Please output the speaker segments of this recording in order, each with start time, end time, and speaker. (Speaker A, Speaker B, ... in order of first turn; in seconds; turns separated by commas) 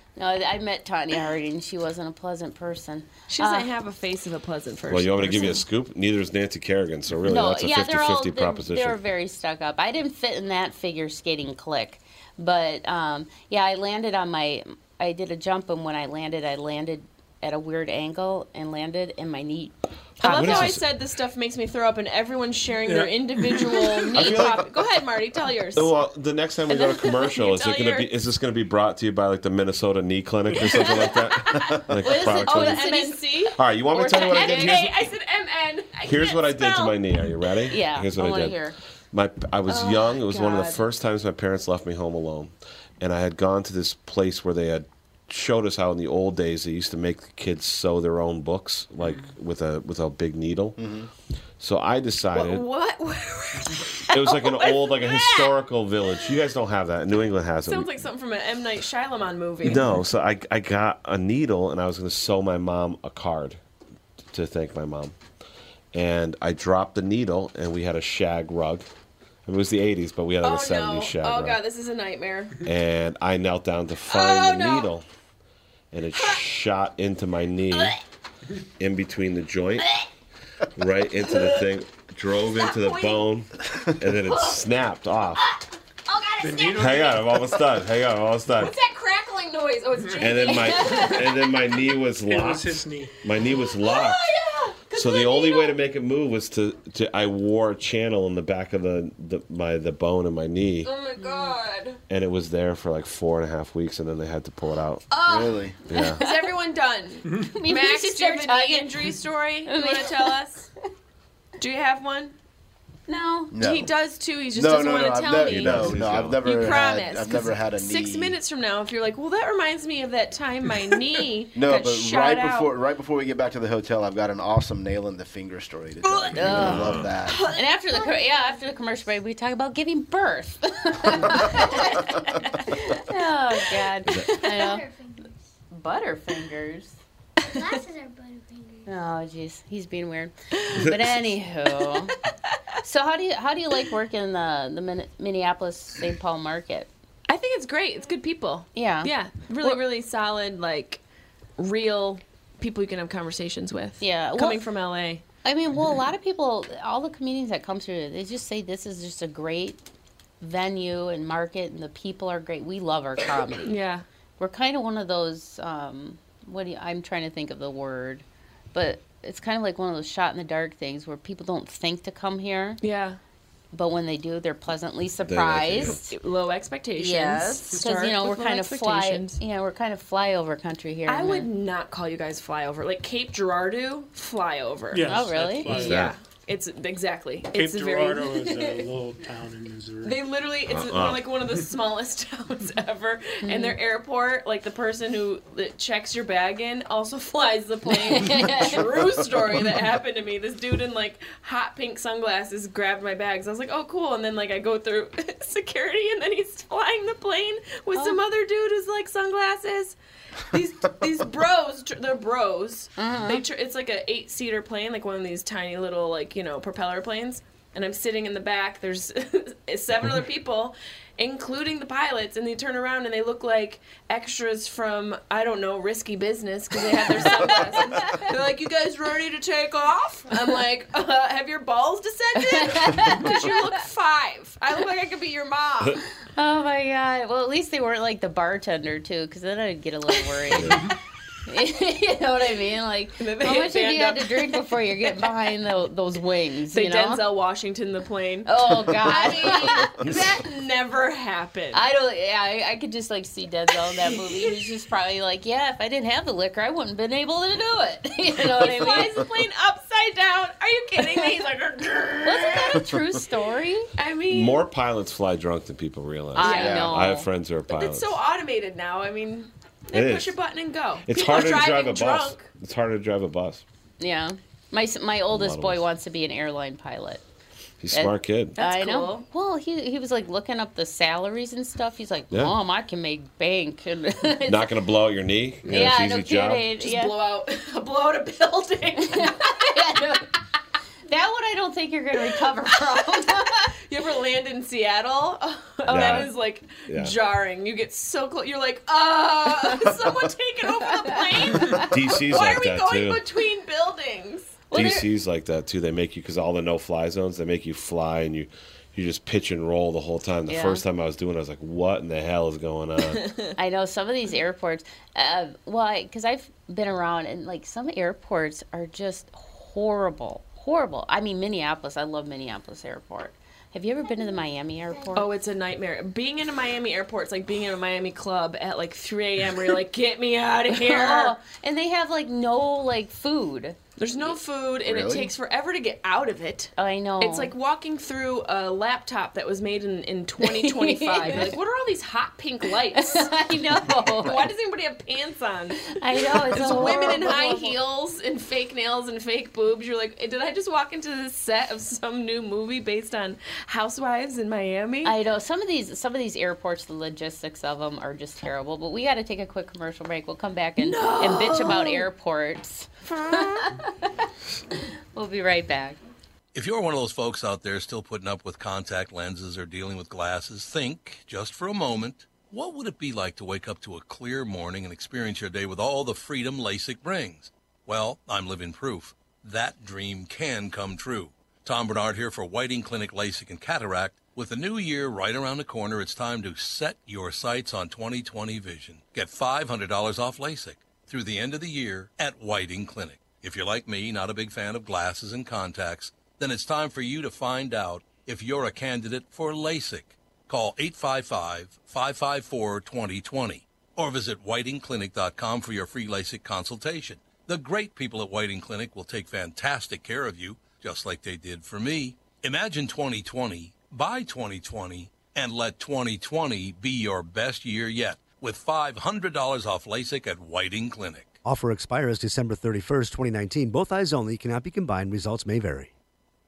Speaker A: 0.1-3.7, Speaker B: 3.3-5.6, Speaker C: 4.9-9.0, Speaker A: 7.3-20.8, Speaker B: 20.2-25.9, Speaker C: 20.2-20.8, Speaker D: 22.8-24.1, Speaker C: 24.1-24.7, Speaker C: 25.7-32.9, Speaker B: 26.7-28.1, Speaker B: 30.7-37.0, Speaker A: 32.0-33.3, Speaker C: 33.5-34.9, Speaker A: 34.0-34.7, Speaker C: 36.0-38.6, Speaker A: 37.7-38.8, Speaker C: 39.1-50.8, Speaker B: 39.7-40.9, Speaker E: 50.8-51.1, Speaker C: 51.6-52.6, Speaker B: 52.3-55.5, Speaker C: 54.1-58.0, Speaker B: 57.6-59.9, Speaker C: 59.6-63.6, Speaker C: 64.3-65.1, Speaker C: 65.9-68.9, Speaker C: 69.5-71.6, Speaker B: 70.4-72.6, Speaker C: 72.6-75.0, Speaker B: 74.1-74.9, Speaker C: 75.9-78.0, Speaker C: 78.8-79.9, Speaker C: 80.7-85.4, Speaker B: 81.2-81.6, Speaker B: 82.6-83.2, Speaker B: 84.2-84.6, Speaker B: 85.4-87.1, Speaker D: 86.4-87.3, Speaker C: 86.7-88.7, Speaker B: 88.6-91.5, Speaker C: 90.2-94.3, Speaker D: 92.2-93.2, Speaker B: 93.7-95.8, Speaker C: 94.9-100.9, Speaker B: 100.8-102.0, Speaker A: 101.2-101.5, Speaker C: 102.1-105.0, Speaker B: 105.1-105.6, Speaker E: 105.2-105.8, Speaker C: 105.9-106.2, Speaker A: 105.9-106.5, Speaker B: 106.2-110.7, Speaker A: 107.4-109.1, Speaker A: 109.7-110.3, Speaker B: 111.6-112.3, Speaker A: 113.1-113.5, Speaker E: 113.5-113.9, Speaker B: 113.6-122.7, Speaker E: 114.5-118.4, Speaker C: 115.5-116.4, Speaker E: 121.5-127.4, Speaker B: 126.0-126.7, Speaker C: 126.3-127.1, Speaker A: 126.3-134.8, Speaker B: 127.2-127.6, Speaker F: 128.0-128.5, Speaker C: 134.1-134.3, Speaker F: 134.3-135.4, Speaker A: 135.7-137.0, Speaker F: 137.4-138.9, Speaker A: 138.9-142.2, Speaker A: 142.8-146.9, Speaker B: 147.3-151.0, Speaker A: 148.7-149.8, Speaker B: 151.6-155.2, Speaker A: 154.0-154.6, Speaker A: 155.4-159.8, Speaker A: 160.4-163.7, Speaker B: 163.6-164.0, Speaker A: 164.4-172.8, Speaker B: 172.8-173.2, Speaker A: 173.7-176.2, Speaker C: 175.2-176.0, Speaker B: 176.1-179.4, Speaker A: 177.0-181.5, Speaker B: 181.1-188.6, Speaker D: 184.9-186.0, Speaker A: 185.1-186.0, Speaker C: 185.7-186.1, Speaker D: 187.5-190.2, Speaker B: 190.0-209.9, Speaker C: 190.7-191.3, Speaker A: 193.4-193.8, Speaker A: 197.9-198.9, Speaker B: 210.5-236.0, Speaker A: 213.0-213.4, Speaker A: 227.3-228.2, Speaker A: 232.4-233.6, Speaker A: 236.3-240.9, Speaker C: 240.5-240.9, Speaker A: 241.5-247.2, Speaker B: 243.2-244.6, Speaker B: 246.7-251.8, Speaker A: 248.4-250.0, Speaker A: 251.7-259.2, Speaker B: 258.6-262.8, Speaker A: 261.0-261.4, Speaker A: 262.2-263.9, Speaker B: 264.0-264.6, Speaker C: 264.3-268.2, Speaker A: 266.3-267.3, Speaker B: 266.4-266.8, Speaker E: 266.5-266.9, Speaker B: 267.7-272.5, Speaker C: 269.9-270.3, Speaker C: 271.0-273.6, Speaker A: 274.0-277.2, Speaker C: 275.3-275.8, Speaker C: 277.8-278.6, Speaker A: 277.9-284.7, Speaker B: 278.6-279.2, Speaker C: 284.4-286.7, Speaker A: 285.6-287.1, Speaker B: 286.8-289.5, Speaker A: 289.0-290.3, Speaker A: 291.1-293.7, Speaker B: 293.8-305.0, Speaker C: 295.9-296.3, Speaker A: 295.9-296.3, Speaker C: 296.9-297.1, Speaker A: 301.4-301.7, Speaker C: 301.8-303.2, Speaker A: 304.7-305.0, Speaker C: 304.7-313.2, Speaker A: 310.5-310.8, Speaker B: 313.1-313.5, Speaker A: 313.6-325.3, Speaker F: 324.1-324.4, Speaker B: 325.1-331.4, Speaker A: 330.7-333.8, Speaker B: 334.0-343.3, Speaker E: 334.8-335.3, Speaker A: 336.8-337.5, Speaker A: 340.4-341.6, Speaker A: 342.9-344.4, Speaker B: 344.2-355.1, Speaker A: 345.9-347.8, Speaker A: 355.0-364.1, Speaker B: 360.8-362.1, Speaker B: 363.0-363.7, Speaker A: 365.1-366.0, Speaker G: 366.5-421.4, Speaker H: 421.4-425.9